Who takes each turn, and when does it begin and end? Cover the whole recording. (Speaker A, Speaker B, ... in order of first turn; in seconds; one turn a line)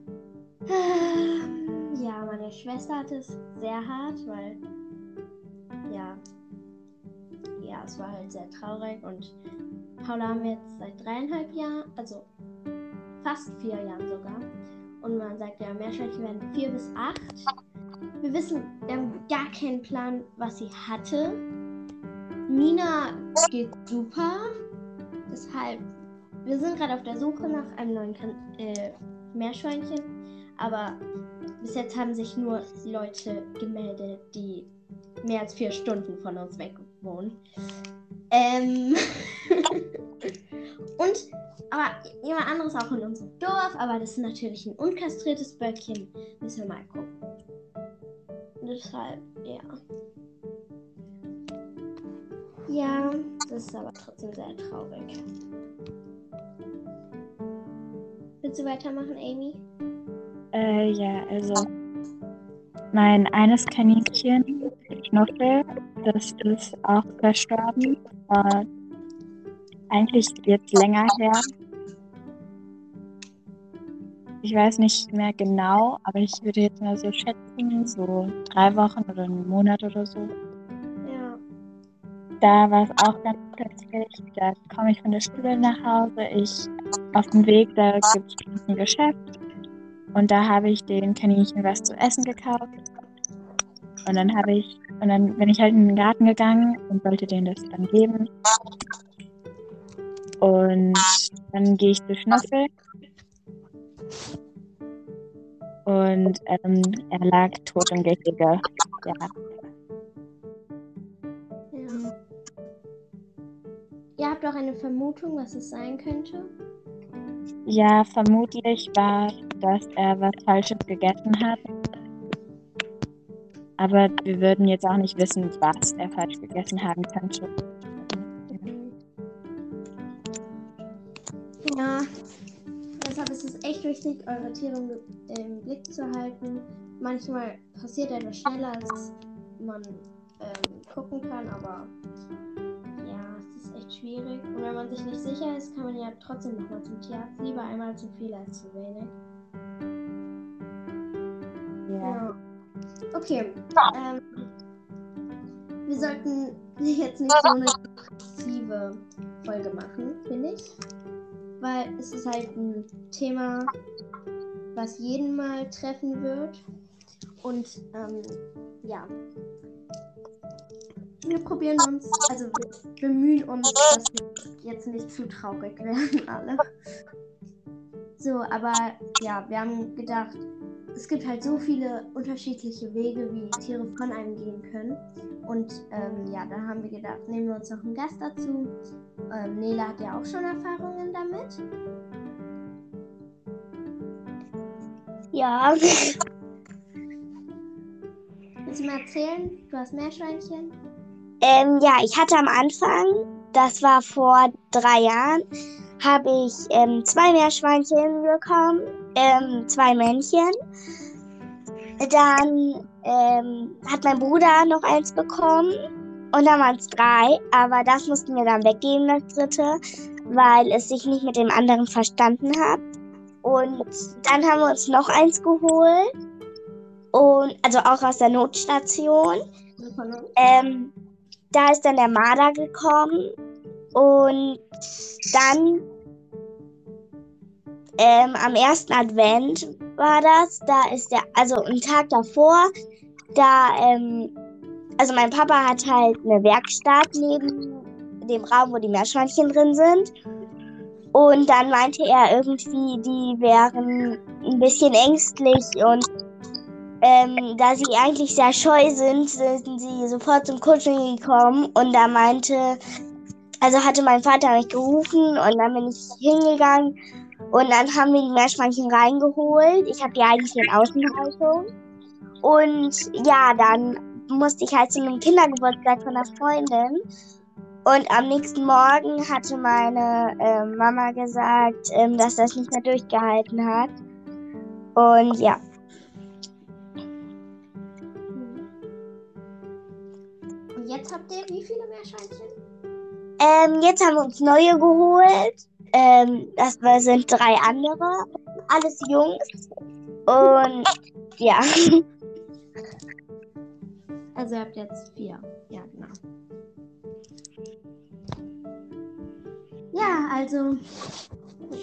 Speaker A: 0.7-4.6
Speaker A: 5.9-6.2
Speaker A: 7.6-9.4
Speaker A: 10.0-12.3
Speaker A: 13.2-14.5
Speaker A: 15.0-17.5
Speaker A: 18.2-21.4
Speaker A: 22.5-24.5
Speaker A: 25.3-25.9
Speaker A: 26.4-31.0
Speaker A: 31.6-34.7
Speaker A: 35.2-37.4
Speaker A: 38.3-39.8
Speaker A: 41.0-47.1
Speaker A: 48.6-49.7
Speaker A: 52.7-55.2
Speaker A: 58.4-59.6
Speaker B: 60.5-61.7
Speaker B: 62.9-68.7
Speaker B: 69.9-71.5
Speaker B: 74.4-80.3
Speaker A: 81.0-81.4
Speaker B: 82.4-89.2
Speaker B: 90.1-92.8
Speaker B: 94.0-98.3
Speaker B: 100.4-102.7
Speaker B: 105.9-109.3
Speaker A: 111.7-112.0
Speaker A: 114.2-116.5
Speaker B: 117.7-121.7
Speaker B: 123.8-128.7
Speaker A: 128.7-128.9
Speaker A: 131.6-132.1
Speaker A: 133.0-141.9
Speaker A: 143.0-149.1
Speaker B: 151.9-152.2
Speaker A: 152.0-152.3
Speaker A: 153.1-154.5
Speaker A: 155.9-160.7
Speaker A: 161.6-163.7
Speaker A: 164.8-166.6
Speaker A: 167.4-169.1
Speaker A: 171.2-176.7
Speaker A: 178.2-188.8
Speaker A: 189.3-191.6
Speaker C: 195.3-196.2
Speaker A: 198.7-200.8
Speaker C: 201.4-205.4
Speaker C: 206.0-210.6
Speaker C: 212.0-215.7
Speaker C: 216.3-219.8
Speaker C: 220.3-222.8
Speaker C: 223.4-226.1
Speaker C: 227.1-229.4
Speaker A: 229.8-230.3
Speaker C: 230.4-230.9
Speaker C: 231.5-233.3
Speaker C: 233.9-234.6
Speaker C: 235.3-235.8
Speaker C: 238.0-242.7
Speaker C: 243.3-244.3
Speaker C: 245.0-250.1
Speaker C: 251.1-256.1
Speaker C: 257.0-262.8
Speaker C: 263.6-266.9
Speaker C: 267.5-271.7
Speaker C: 272.4-277.0
Speaker C: 277.9-283.9
Speaker C: 285.0-285.6
Speaker A: 288.3-288.6
Speaker A: 290.8-292.5
Speaker C: 293.4-299.4
Speaker C: 300.3-300.9
Speaker C: 301.4-302.0
Speaker A: 304.4-306.2
Speaker A: 309.9-310.8